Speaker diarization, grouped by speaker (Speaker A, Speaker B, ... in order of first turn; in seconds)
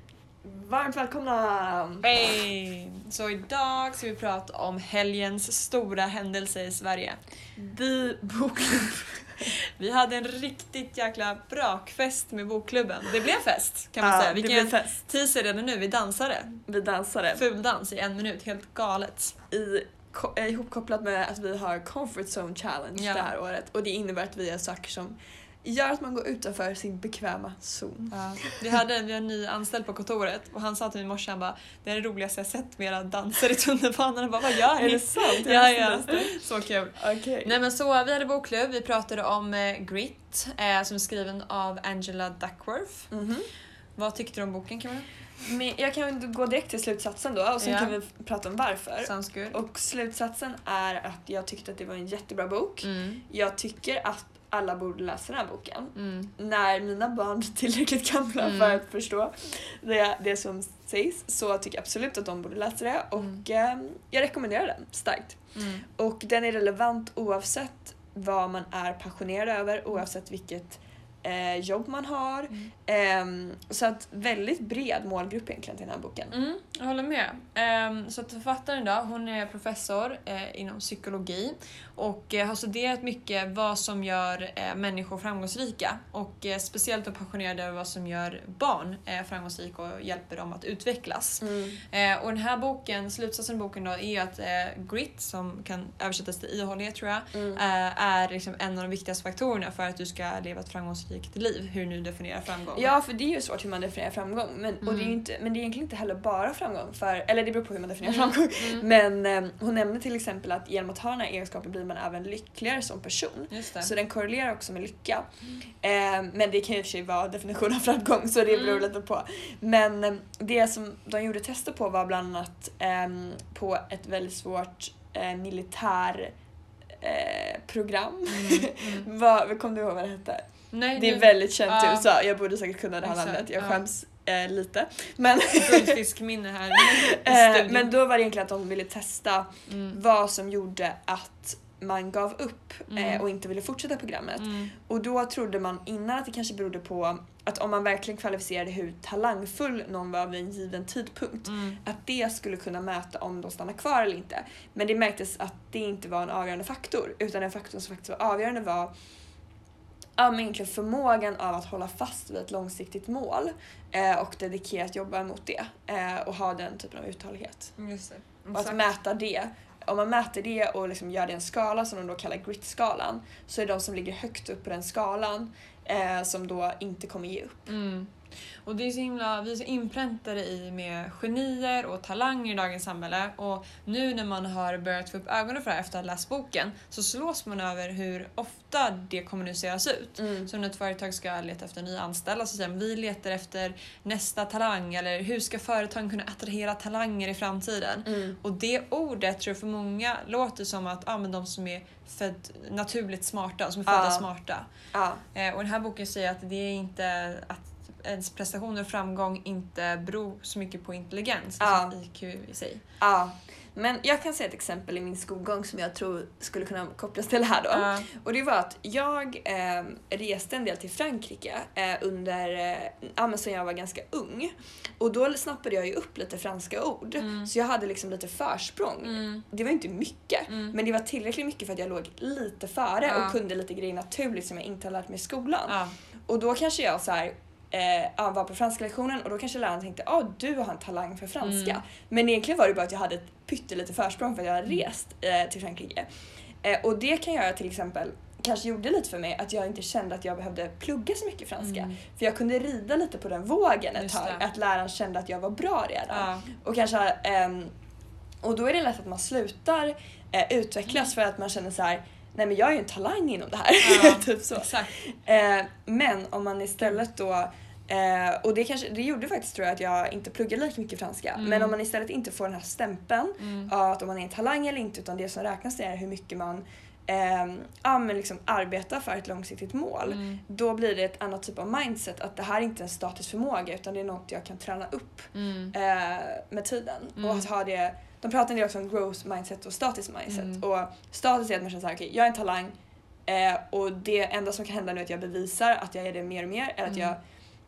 Speaker A: 0.4-2.1, 7.6-9.5, 14.0-15.0, 16.7-17.4, 19.5-28.5, 34.8-36.4, 37.0-37.5, 43.1-43.5, 45.4-65.4, 66.0-76.3, 91.4-91.8, 97.3-97.6, 102.7-115.2, 115.8-126.3, 127.0-130.4, 130.9-136.0, 136.7-158.9, 160.2-167.7, 168.5-177.7, 190.2-190.5, 198.1-198.4, 203.9-204.3, 204.9-205.2, 211.6-211.9, 213.0-235.8, 236.3-246.1, 246.6-257.7, 258.4-292.7, 293.3-297.2
Speaker B: 2.0-7.2, 9.8-16.6, 17.3-19.4, 23.0-23.3, 28.1-43.1, 44.0-45.1, 47.6-48.0, 49.0-49.6, 52.8-53.2, 55.9-56.3, 58.4-58.8, 65.5-65.8, 76.3-102.9, 104.8-105.2, 108.0-108.9, 113.5-113.9, 118.5-118.9, 128.3-129.1, 130.7-132.1, 133.0-133.8, 135.6-137.9, 139.7-140.0, 142.9-143.2, 144.4-144.7, 151.4-151.8, 167.8-168.8, 177.7-178.1, 178.6-204.7, 205.3-212.8, 217.7-218.1, 227.2-227.5, 229.0-229.4, 230.5-230.8, 233.1-233.4, 235.7-235.9, 241.4-241.8, 251.6-251.9, 253.9-254.5, 256.1-256.5, 263.8-264.9, 271.4-271.8, 273.4-273.7, 280.1-280.4, 285.3-285.7, 287.2-287.5, 290.3-290.6, 296.9-297.1